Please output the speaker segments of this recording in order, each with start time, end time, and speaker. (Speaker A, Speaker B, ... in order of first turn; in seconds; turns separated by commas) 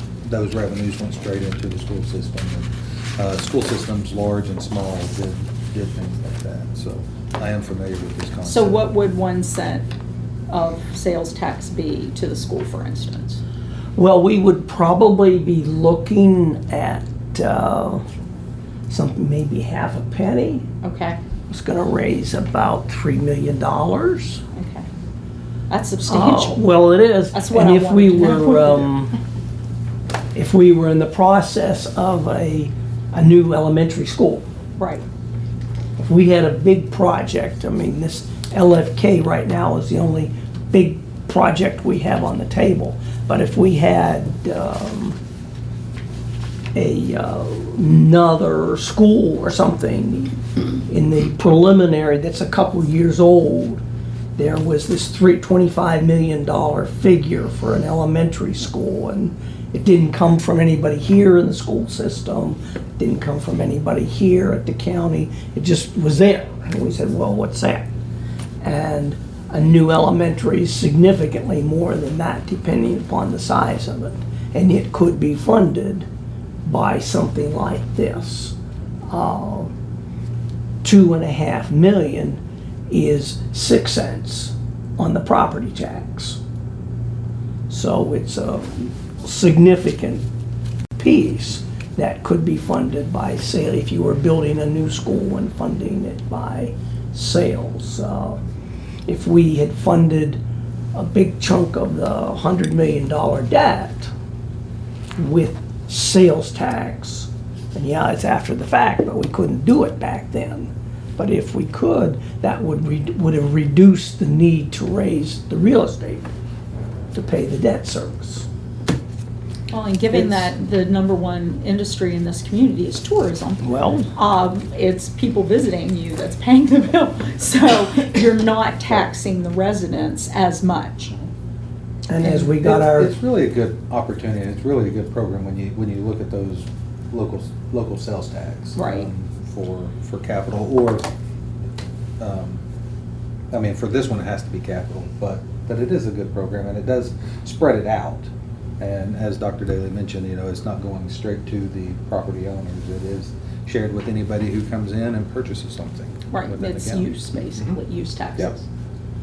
Speaker A: 0.2-8.8, Speaker B: 8.4-9.9, Speaker B: 10.5-13.4, Speaker C: 13.9-18.0, Speaker C: 18.9-20.6, Speaker B: 20.8-21.2, Speaker C: 21.5-24.4, Speaker B: 24.5-24.9, Speaker B: 25.7-26.6, Speaker C: 26.1-29.1, Speaker B: 27.3-28.9, Speaker C: 30.3-34.5, Speaker B: 34.8-35.0, Speaker C: 36.0-45.2, Speaker C: 46.7-53.8, Speaker C: 54.4-67.9, Speaker C: 68.6-76.1, Speaker C: 76.7-78.5, Speaker C: 79.1-79.7, Speaker C: 80.8-86.4, Speaker C: 87.7-90.2, Speaker C: 91.0-98.4, Speaker C: 99.0-100.4, Speaker C: 100.9-104.1, Speaker C: 105.2-116.3, Speaker C: 117.1-118.5, Speaker B: 119.7-123.6, Speaker C: 120.1-120.5, Speaker C: 123.6-124.1, Speaker B: 124.1-131.2, Speaker C: 132.1-133.1, Speaker A: 132.4-141.1, Speaker B: 138.8-139.1, Speaker A: 142.2-142.6, Speaker A: 143.5-157.7, Speaker B: 156.3-158.6, Speaker A: 158.4-158.6